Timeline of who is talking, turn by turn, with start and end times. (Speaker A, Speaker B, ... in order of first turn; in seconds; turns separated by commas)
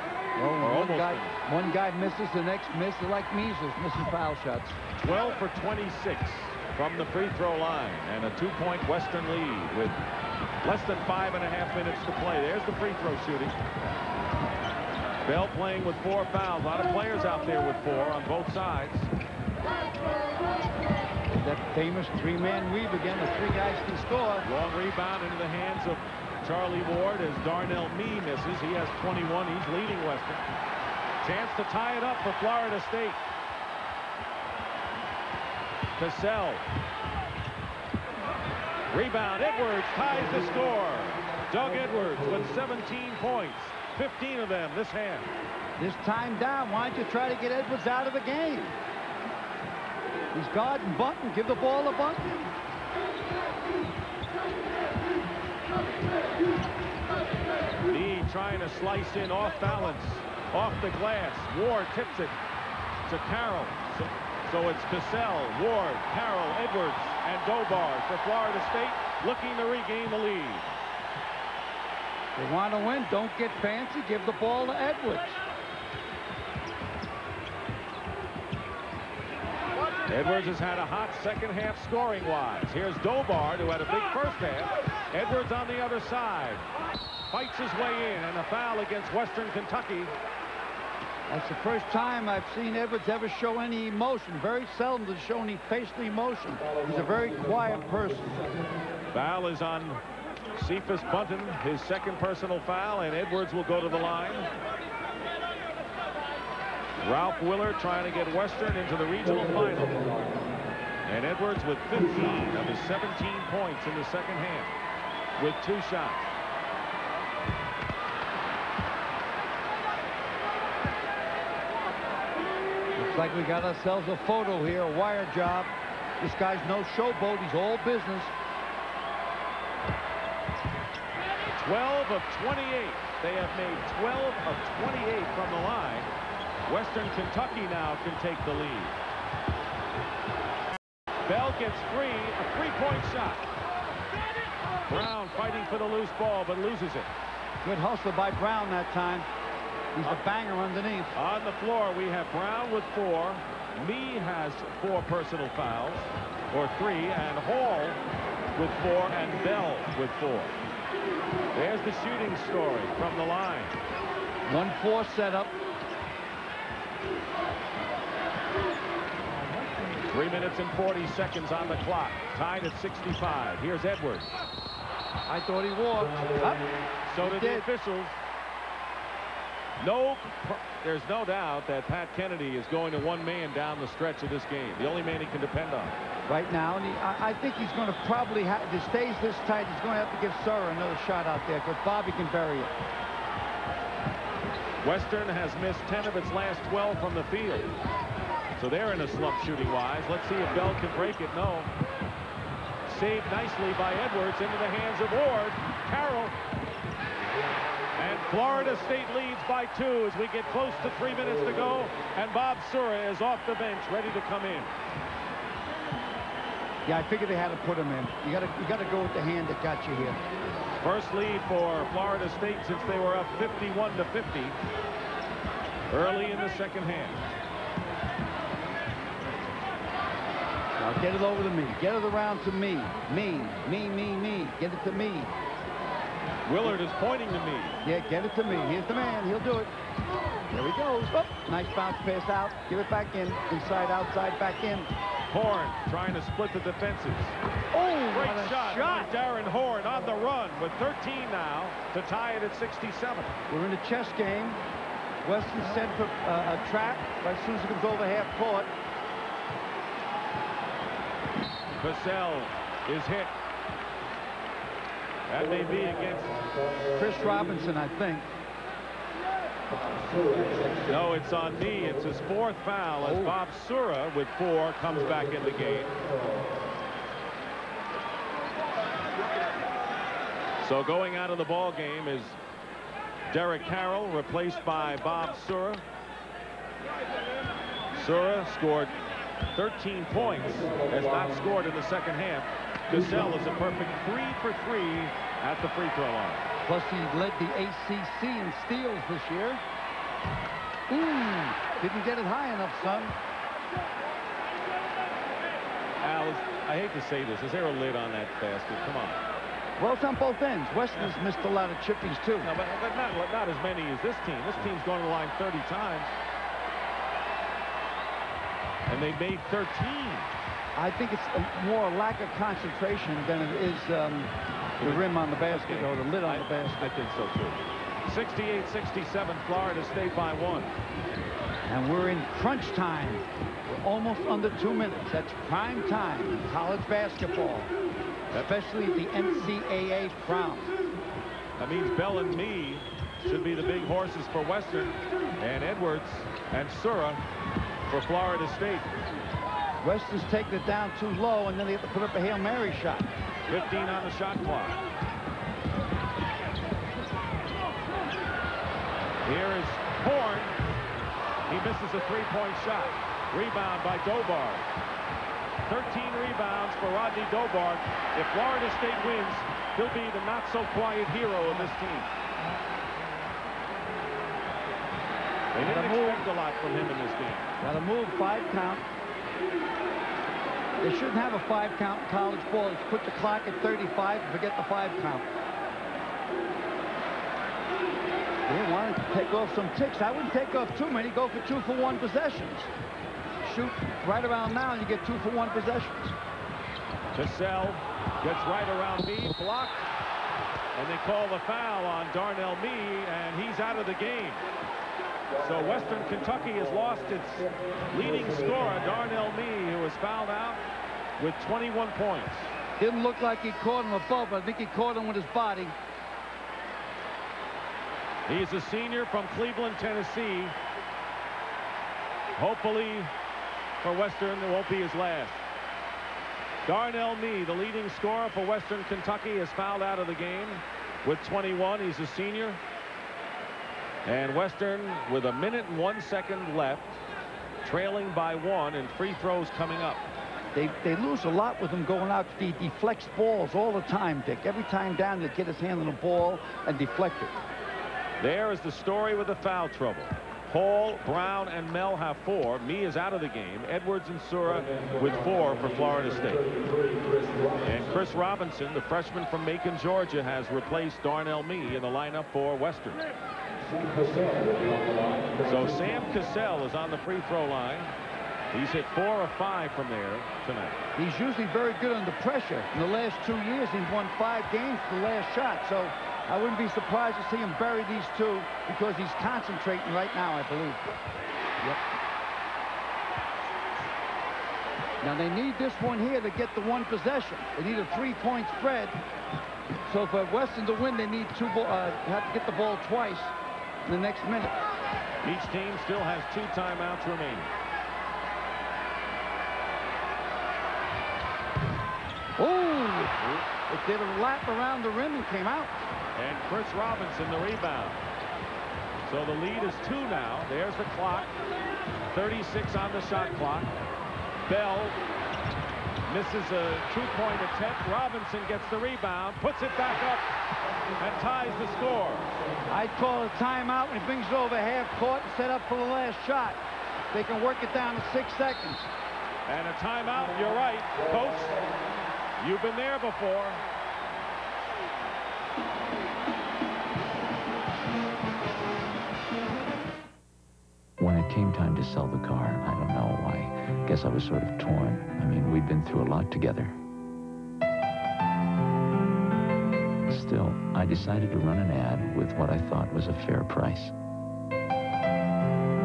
Speaker A: 0.3-4.8, Speaker B: 0.6-1.4, Speaker B: 5.0-10.0, Speaker B: 10.6-13.6, Speaker B: 15.2-19.1, Speaker A: 21.3-24.4, Speaker B: 24.4-30.4, Speaker B: 31.2-33.2, Speaker B: 36.0-36.6, Speaker B: 38.9-45.3, Speaker A: 45.8-48.8, Speaker A: 50.3-52.5, Speaker B: 57.9-62.4, Speaker B: 63.1-70.7, Speaker A: 72.3-75.4, Speaker B: 80.1-86.7, Speaker B: 87.3-90.1, Speaker A: 91.3-98.7, Speaker B: 99.1-100.0, Speaker B: 100.5-104.5, Speaker B: 107.0-110.1, Speaker B: 111.1-114.7, Speaker B: 115.4-116.3, Speaker A: 122.9-128.3, Speaker B: 131.6-136.1, Speaker B: 136.7-139.0, Speaker B: 141.3-143.4, Speaker B: 144.9-147.1, Speaker A: 147.6-149.3, Speaker A: 149.9-151.2, Speaker B: 151.2-158.0, Speaker B: 158.6-160.6, Speaker B: 161.5-163.8, Speaker A: 164.5-165.6, Speaker B: 170.1-174.3, Speaker A: 175.3-177.7, Speaker B: 177.1-178.2, Speaker B: 179.8-185.9, Speaker A: 186.3-192.8, Speaker B: 194.8-197.7, Speaker B: 198.6-201.7, Speaker B: 202.8-206.3, Speaker B: 207.9-214.7, Speaker A: 216.8-220.2, Speaker B: 220.8-224.6, Speaker B: 225.9-227.3, Speaker A: 230.8-235.3, Speaker B: 236.4-237.8, Speaker A: 237.8-239.7, Speaker A: 240.5-244.9, Speaker B: 245.3-247.3, Speaker A: 247.7-249.1, Speaker B: 248.1-253.3, Speaker A: 253.5-254.6, Speaker A: 255.2-258.7, Speaker B: 261.7-263.3, Speaker B: 265.3-266.4, Speaker A: 266.9-268.3, Speaker B: 270.9-276.0, Speaker A: 273.0-273.4, Speaker B: 280.6-282.4, Speaker B: 283.3-285.8, Speaker B: 287.9-288.9, Speaker B: 289.6-296.4, Speaker A: 296.6-299.6, Speaker A: 300.9-303.1, Speaker B: 306.0-309.2, Speaker A: 309.8-312.5, Speaker B: 312.4-316.1, Speaker B: 318.9-320.3, Speaker A: 320.8-326.9, Speaker B: 324.8-330.7, Speaker A: 331.6-337.7, Speaker A: 338.3-340.8, Speaker B: 341.6-347.2, Speaker B: 347.9-348.9, Speaker A: 349.8-353.1, Speaker B: 353.5-354.8, Speaker B: 359.2-360.6, Speaker B: 361.5-364.6, Speaker B: 365.6-372.1, Speaker B: 375.5-377.5, Speaker A: 375.6-376.3, Speaker A: 377.6-378.9, Speaker A: 380.8-385.3, Speaker A: 388.5-392.7, Speaker A: 393.4-396.1, Speaker B: 397.1-399.9, Speaker B: 400.7-404.4, Speaker B: 405.4-410.6, Speaker B: 411.2-412.5, Speaker A: 412.8-415.7, Speaker B: 418.3-420.6, Speaker B: 422.4-423.1, Speaker B: 423.8-425.4, Speaker B: 426.6-432.6, Speaker B: 434.1-437.0, Speaker B: 437.6-440.0, Speaker A: 440.5-447.4, Speaker B: 448.2-456.5, Speaker B: 457.6-463.0, Speaker B: 465.4-467.9, Speaker B: 468.5-470.8, Speaker A: 470.9-480.9, Speaker A: 485.0-489.0, Speaker A: 489.9-494.6, Speaker B: 495.2-497.5, Speaker A: 502.4-505.9, Speaker B: 506.1-508.0, Speaker B: 509.1-511.3, Speaker B: 512.1-513.7, Speaker B: 514.5-515.0, Speaker B: 516.1-520.3, Speaker B: 521.0-522.3, Speaker A: 522.7-526.6, Speaker A: 527.1-528.9, Speaker B: 529.5-531.6, Speaker B: 532.4-533.6, Speaker C: 541.0-546.7, Speaker C: 550.1-553.9